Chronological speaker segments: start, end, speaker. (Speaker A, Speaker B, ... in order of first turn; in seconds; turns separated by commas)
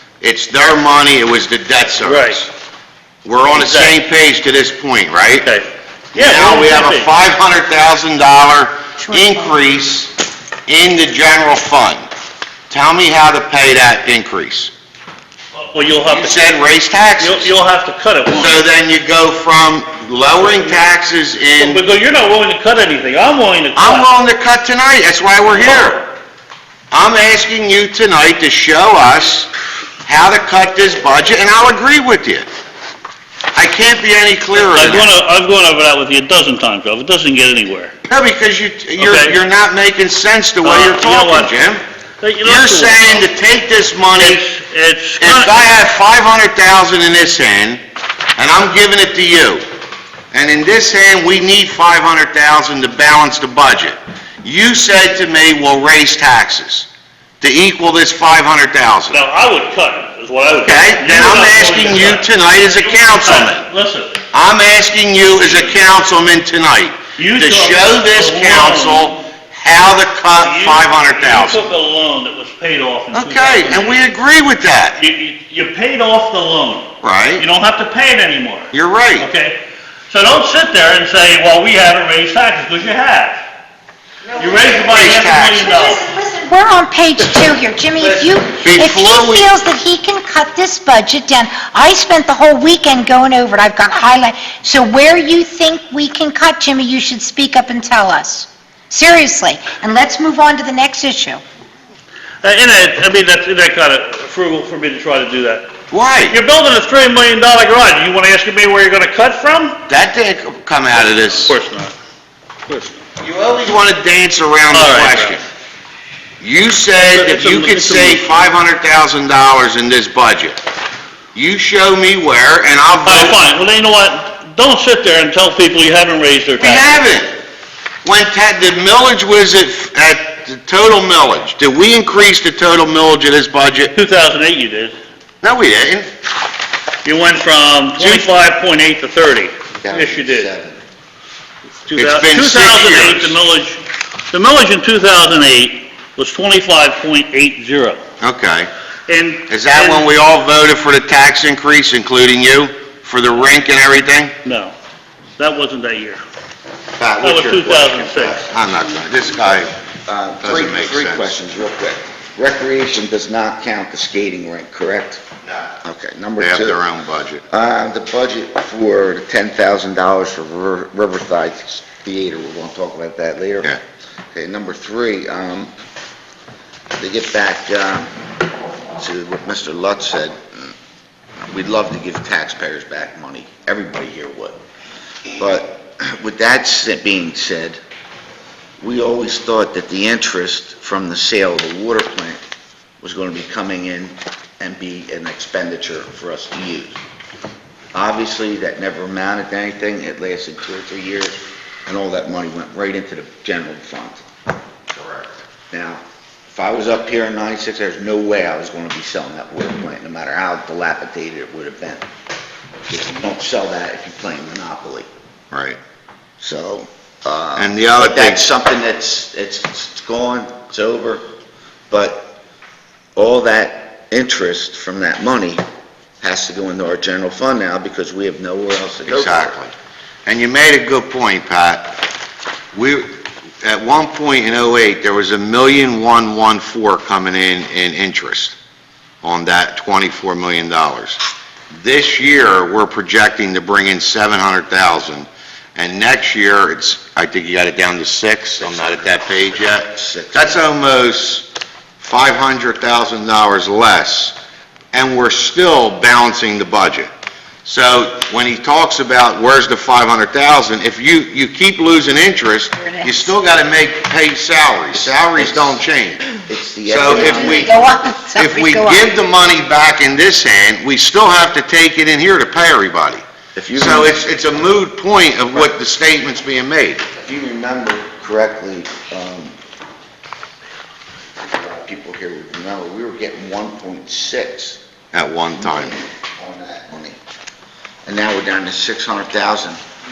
Speaker A: 0.2-2.5, Speaker B: 2.0-2.4, Speaker A: 3.2-5.5, Speaker B: 3.5-4.0, Speaker B: 5.4-7.1, Speaker A: 6.1-10.1, Speaker C: 9.0-9.6, Speaker A: 10.7-12.0, Speaker A: 12.7-14.7, Speaker B: 15.6-16.6, Speaker A: 16.1-17.5, Speaker B: 17.2-18.7, Speaker A: 18.3-21.8, Speaker B: 21.6-24.1, Speaker A: 23.8-26.1, Speaker A: 26.9-29.5, Speaker A: 30.0-32.5, Speaker A: 33.5-35.1, Speaker B: 34.5-38.0, Speaker A: 38.1-41.8, Speaker B: 39.0-39.4, Speaker B: 40.6-41.6, Speaker B: 42.2-43.3, Speaker A: 42.4-44.4, Speaker B: 44.1-45.6, Speaker A: 45.2-47.8, Speaker A: 48.4-49.6, Speaker A: 50.3-56.9, Speaker A: 57.4-59.2, Speaker B: 59.1-64.2, Speaker A: 60.6-63.7, Speaker A: 64.3-71.6, Speaker B: 67.2-69.2, Speaker B: 70.3-74.0, Speaker A: 73.1-75.0, Speaker B: 75.0-83.4, Speaker A: 77.0-77.5, Speaker A: 78.7-79.3, Speaker A: 84.3-85.7, Speaker B: 84.4-86.0, Speaker C: 85.5-101.4, Speaker A: 88.0-89.5, Speaker B: 102.4-105.7, Speaker A: 105.9-106.4, Speaker B: 106.3-109.8, Speaker A: 109.9-111.6, Speaker B: 111.3-112.0, Speaker B: 112.7-113.0, Speaker A: 113.2-115.4, Speaker B: 114.7-115.4, Speaker A: 116.4-120.6, Speaker B: 117.0-118.3, Speaker A: 121.3-123.4, Speaker B: 123.0-127.0, Speaker A: 126.6-127.3, Speaker A: 128.0-133.9, Speaker B: 133.9-135.0, Speaker A: 135.4-136.1, Speaker B: 137.0-140.5, Speaker A: 137.9-138.3, Speaker D: 139.9-140.8, Speaker B: 141.9-148.0, Speaker A: 141.9-143.4, Speaker A: 148.2-148.7, Speaker B: 149.1-150.1, Speaker A: 149.5-154.3, Speaker B: 154.4-154.7, Speaker B: 155.4-156.2, Speaker A: 157.0-159.7, Speaker B: 157.2-158.4, Speaker D: 160.1-165.2, Speaker A: 160.4-161.3, Speaker A: 165.4-165.7, Speaker D: 165.8-166.8, Speaker A: 166.4-167.4, Speaker D: 167.5-173.8, Speaker D: 174.3-175.7, Speaker D: 177.0-178.1, Speaker D: 179.0-180.7, Speaker D: 181.4-184.6, Speaker D: 185.4-187.8, Speaker D: 188.8-192.4, Speaker D: 193.0-197.0, Speaker D: 197.9-204.2, Speaker A: 205.0-205.3, Speaker D: 205.7-212.1, Speaker D: 212.9-215.1, Speaker A: 215.5-215.8, Speaker D: 216.4-221.2, Speaker A: 217.6-218.4, Speaker D: 221.9-222.4, Speaker D: 223.2-225.6, Speaker D: 226.2-229.6, Speaker A: 229.1-229.7, Speaker A: 230.3-232.0, Speaker A: 232.7-238.6, Speaker A: 239.2-241.2, Speaker A: 241.7-251.5, Speaker D: 249.9-250.7, Speaker A: 252.0-254.3, Speaker A: 254.9-257.1, Speaker A: 257.6-266.2, Speaker C: 262.8-263.3, Speaker D: 264.9-265.8, Speaker D: 266.4-267.8, Speaker A: 266.9-273.2, Speaker C: 267.1-269.1, Speaker D: 273.6-274.6, Speaker A: 273.8-277.1, Speaker D: 277.2-279.6, Speaker D: 281.5-284.8, Speaker A: 285.1-286.0, Speaker D: 286.4-287.2, Speaker D: 288.1-289.8